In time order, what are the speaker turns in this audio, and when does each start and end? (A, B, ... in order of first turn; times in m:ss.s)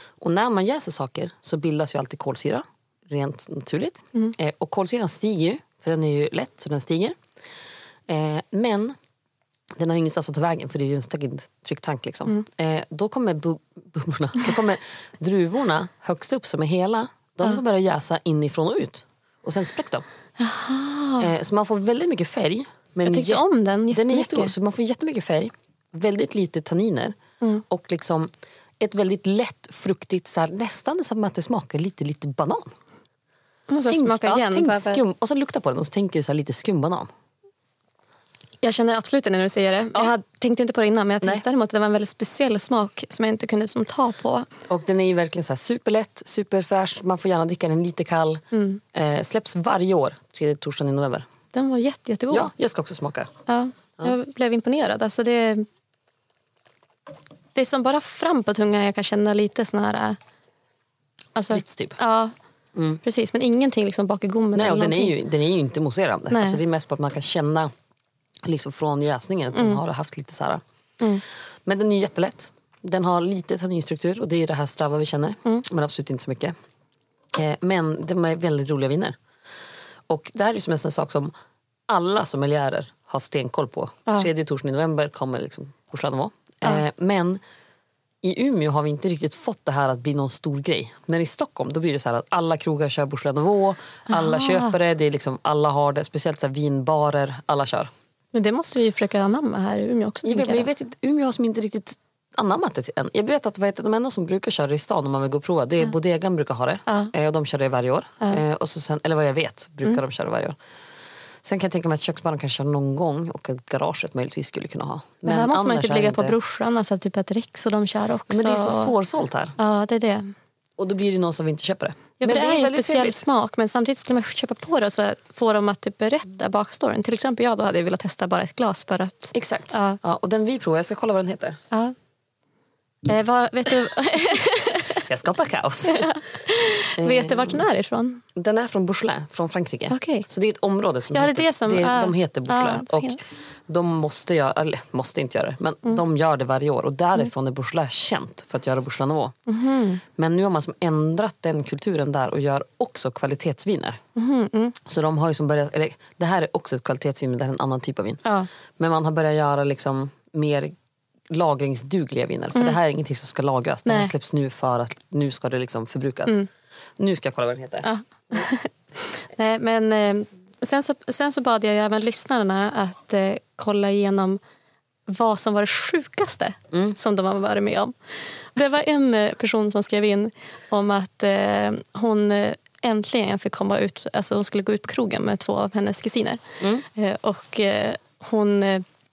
0:00.2-0:07.2 A
0:08.1-0:08.9 A
0:09.8-0:20.0 A
0:20.4-0:21.3 B
0:21.2-0:27.1 A
0:23.0-0:24.5 B
0:27.7-0:32.7 A
0:33.7-0:35.0 B
0:33.8-0:37.1 A
0:38.6-0:44.5 B
0:44.7-0:51.3 A
0:48.5-0:48.8 B
0:51.5-0:52.5 B
0:52.3-0:53.3 A
0:53.5-0:55.7 B
0:57.5-1:00.2 B
1:01.4-1:02.3 B
1:01.4-1:02.0 A
1:02.7-1:03.0 A
1:03.0-1:05.1 B
1:04.5-1:07.7 A
1:06.3-1:06.6 B
1:08.4-1:10.6 A
1:11.6-1:16.5 A
1:17.3-1:19.2 A
1:20.1-1:21.3 A
1:21.9-1:27.4 A
1:28.2-1:37.9 A
1:34.1-1:34.7 B
1:38.3-1:40.7 B
1:40.2-1:50.6 A
1:46.9-1:47.1 B
1:51.4-1:56.4 A
1:55.2-1:58.9 B
1:58.3-1:59.5 A
1:59.6-2:00.3 B
2:00.8-2:03.2 A
2:02.2-2:10.0 B
2:09.3-2:11.6 A
2:13.0-2:15.0 B
2:15.0-2:16.1 A
2:15.8-2:18.2 B
2:17.0-2:17.6 A
2:18.3-2:29.3 A
2:19.9-2:20.2 B
2:21.1-2:23.2 B
2:29.5-2:30.0 B
2:30.2-2:34.0 A
2:34.2-2:34.8 B
2:34.8-2:38.2 A
2:38.8-2:40.7 A
2:41.3-2:46.4 A
2:43.8-2:44.1 B
2:47.0-2:47.9 A
2:47.8-2:54.4 B
2:55.1-2:57.9 B
2:58.5-3:08.8 B